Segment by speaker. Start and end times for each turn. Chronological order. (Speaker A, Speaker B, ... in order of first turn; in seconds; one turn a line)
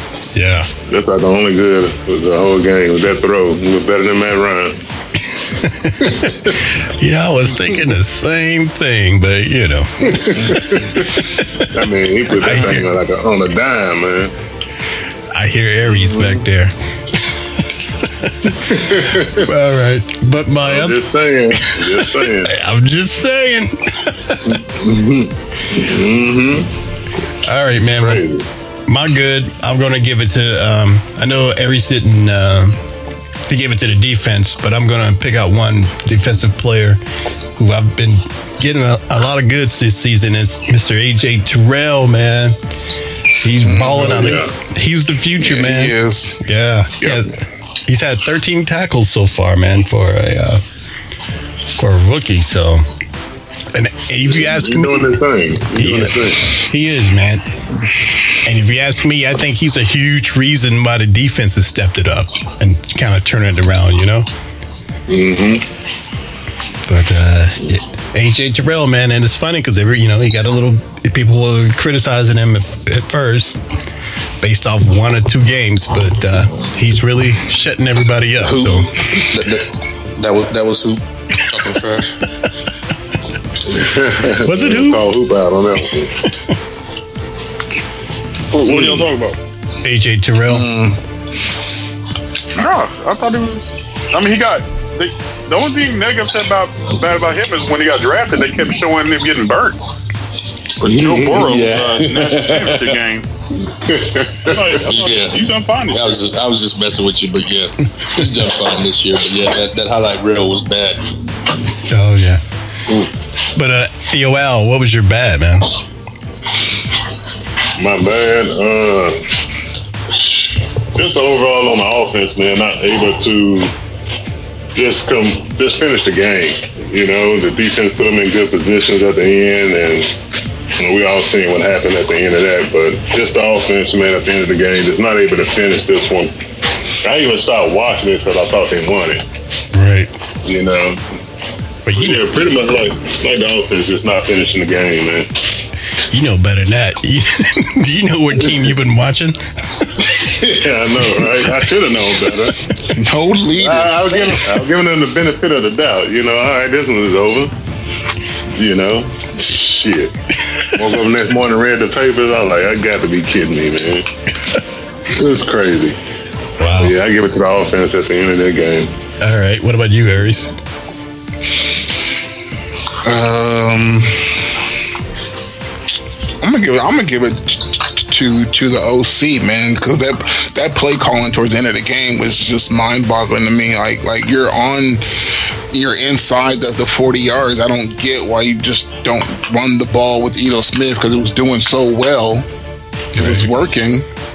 Speaker A: 0.3-0.7
Speaker B: 0.8-4.8
Speaker A: 5.6-6.2
Speaker B: 6.1-6.6
Speaker A: 6.8-10.8
Speaker B: 10.1-11.1
Speaker B: 11.7-14.3
Speaker A: 12.3-12.9
Speaker A: 15.3-17.3
Speaker B: 15.9-16.4
Speaker B: 18.6-19.5
Speaker A: 19.0-21.0
Speaker B: 20.6-22.5
Speaker A: 21.6-24.6
Speaker B: 24.5-26.7
Speaker A: 27.4-28.2
Speaker B: 28.0-28.4
Speaker A: 28.9-32.8
Speaker A: 33.5-37.0
Speaker A: 37.6-42.6
Speaker A: 43.4-47.3
Speaker C: 43.6-44.4
Speaker B: 43.9-44.5
Speaker C: 45.4-46.4
Speaker A: 47.9-50.6
Speaker A: 51.7-52.9
Speaker A: 53.7-55.2
Speaker B: 54.3-56.5
Speaker A: 55.7-57.4
Speaker A: 58.4-64.3
Speaker B: 65.1-65.7
Speaker A: 66.9-73.6
Speaker A: 74.4-78.9
Speaker D: 78.4-82.2
Speaker B: 83.7-86.2
Speaker A: 84.4-85.0
Speaker E: 88.5-89.4
Speaker B: 88.6-89.1
Speaker A: 89.8-90.7
Speaker C: 90.5-91.0
Speaker E: 92.6-99.8
Speaker E: 100.8-103.3
Speaker B: 100.8-101.4
Speaker D: 101.4-102.8
Speaker B: 103.8-104.8
Speaker E: 104.5-106.2
Speaker D: 104.8-111.0
Speaker A: 111.9-112.4
Speaker A: 113.5-115.7
Speaker B: 117.8-119.2
Speaker B: 120.1-123.7
Speaker B: 124.8-130.1
Speaker B: 130.8-136.3
Speaker B: 137.0-139.2
Speaker A: 139.7-140.1
Speaker B: 140.4-141.0
Speaker A: 141.9-142.2
Speaker B: 141.9-145.3
Speaker A: 146.1-150.1
Speaker B: 150.1-152.6
Speaker C: 152.9-154.4
Speaker B: 153.6-157.5
Speaker B: 158.6-160.2
Speaker B: 160.7-164.1
Speaker B: 165.1-166.0
Speaker A: 166.6-166.9
Speaker B: 166.8-168.9
Speaker A: 169.2-170.5
Speaker C: 173.0-174.3
Speaker C: 176.4-185.0
Speaker C: 185.7-192.5
Speaker C: 193.1-194.1
Speaker A: 193.2-193.5